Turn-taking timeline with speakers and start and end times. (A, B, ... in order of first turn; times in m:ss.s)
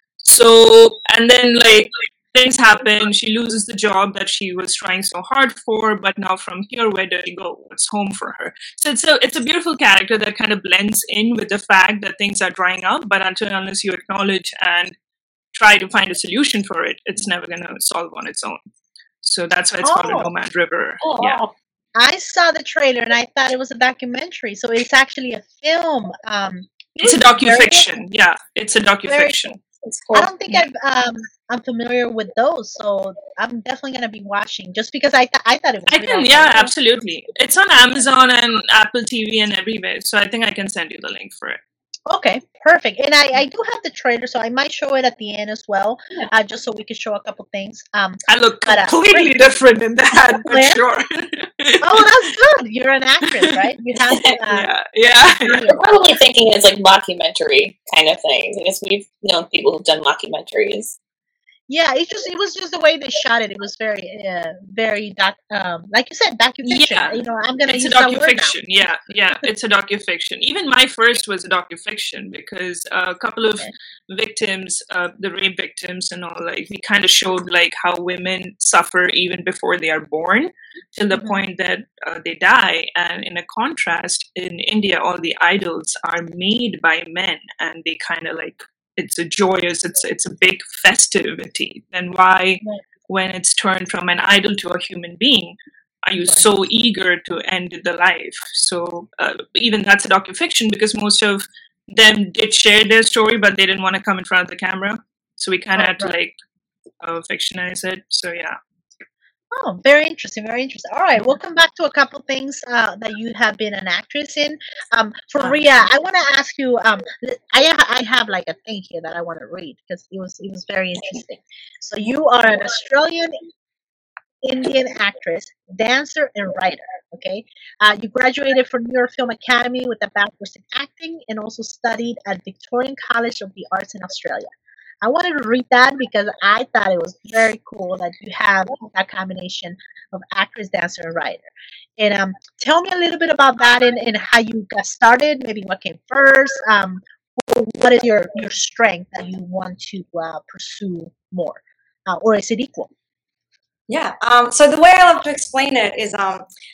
0:00.2-0:14.9 A
0:15.5-0:18.6 A
0:19.2-0:21.4 A
0:19.8-0:20.3 B
0:21.0-0:21.5 C
0:22.0-0:27.9 B
0:27.0-0:29.6 A
0:29.1-0:29.4 B
0:29.8-0:30.3 C
0:30.1-0:36.7 B
0:35.9-0:41.6 A
0:42.1-0:49.4 B
0:48.3-0:52.1 A
0:50.4-0:50.8 B
0:51.8-0:54.7 B
0:53.2-0:53.7 A
0:54.5-0:55.7 A
0:55.4-0:55.9 B
0:55.7-1:01.0 C
1:01.7-1:08.5 B
1:06.6-1:46.4 A
1:45.8-1:46.1 B
1:47.0-1:48.6 A
1:49.5-2:03.4 B
2:04.4-2:14.5 B
2:15.0-2:32.9 B
2:33.9-2:36.4 D